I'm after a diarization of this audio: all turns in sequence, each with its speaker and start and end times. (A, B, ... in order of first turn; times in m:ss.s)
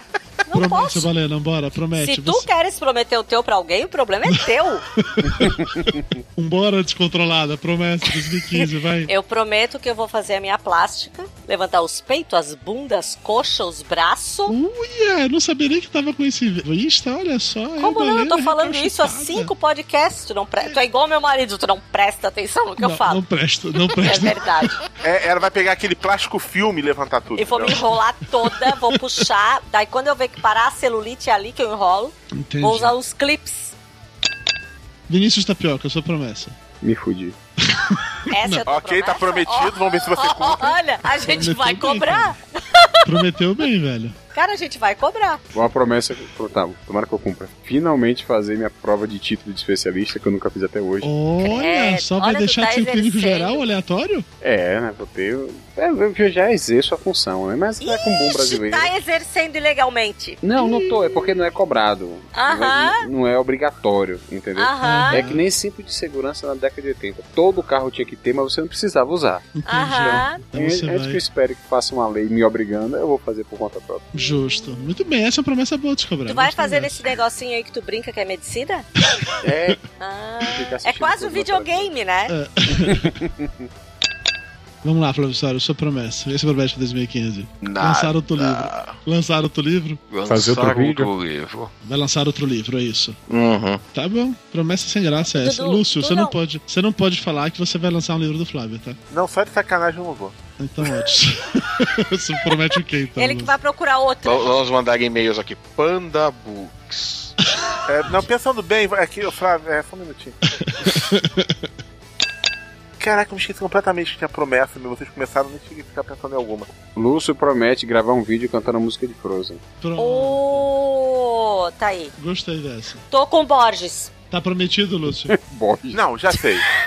0:00.5-0:01.1 A
0:00.5-0:02.5 B
0:02.0-0:04.8 A
0:05.0-0:09.1 B
0:05.4-0:06.0 C
0:09.1-0:14.6 A
0:14.5-0:19.5 B
0:17.8-0:23.2 A
0:22.8-0:24.7 B
0:23.9-0:24.8 A
0:25.0-0:27.8 D
0:27.4-0:33.8 A
0:32.4-0:32.9 B
0:35.1-0:36.6 B
0:36.8-0:37.4 C
0:37.7-0:38.6 B
0:38.3-0:43.2 A
0:38.7-0:40.8 D
0:41.2-0:42.4 B
0:43.0-0:44.2 B
0:44.3-0:45.4 A
0:45.5-0:51.1 C
0:51.0-0:54.3 B
0:51.4-0:53.6 A
0:54.4-0:58.9 C
0:57.8-1:00.4 A
1:00.4-1:14.1 C
1:00.6-1:01.1 B
1:02.4-1:03.0 A
1:04.6-1:05.2 A
1:04.8-1:05.4 B
1:09.6-1:11.2 B
1:09.7-1:10.4 A
1:14.1-1:17.1 B
1:16.3-1:18.9 A
1:19.4-1:19.8 C
1:20.0-1:22.3 A
1:20.4-1:21.9 C
1:22.3-1:23.2 B
1:22.7-1:23.6 C
1:24.8-1:30.0 B
1:27.6-1:29.0 E
1:30.1-1:31.7 E
1:30.3-1:31.1 C
1:31.8-1:33.2 B
1:33.3-1:33.8 E
1:33.9-1:39.0 B
1:35.3-1:36.4 A
1:39.1-1:40.3 D
1:40.6-1:43.6 B
1:43.2-1:44.5 A
1:44.2-1:47.3 E
1:47.9-1:50.4 D
1:50.6-1:51.5 B
1:53.0-1:56.7 D
1:57.0-1:59.6 C
1:59.8-2:00.7 B
2:00.0-2:02.1 A
2:02.2-2:03.0 B
2:03.1-2:04.1 A
2:04.3-2:05.4 B
2:05.3-2:06.0 C
2:05.9-2:06.6 D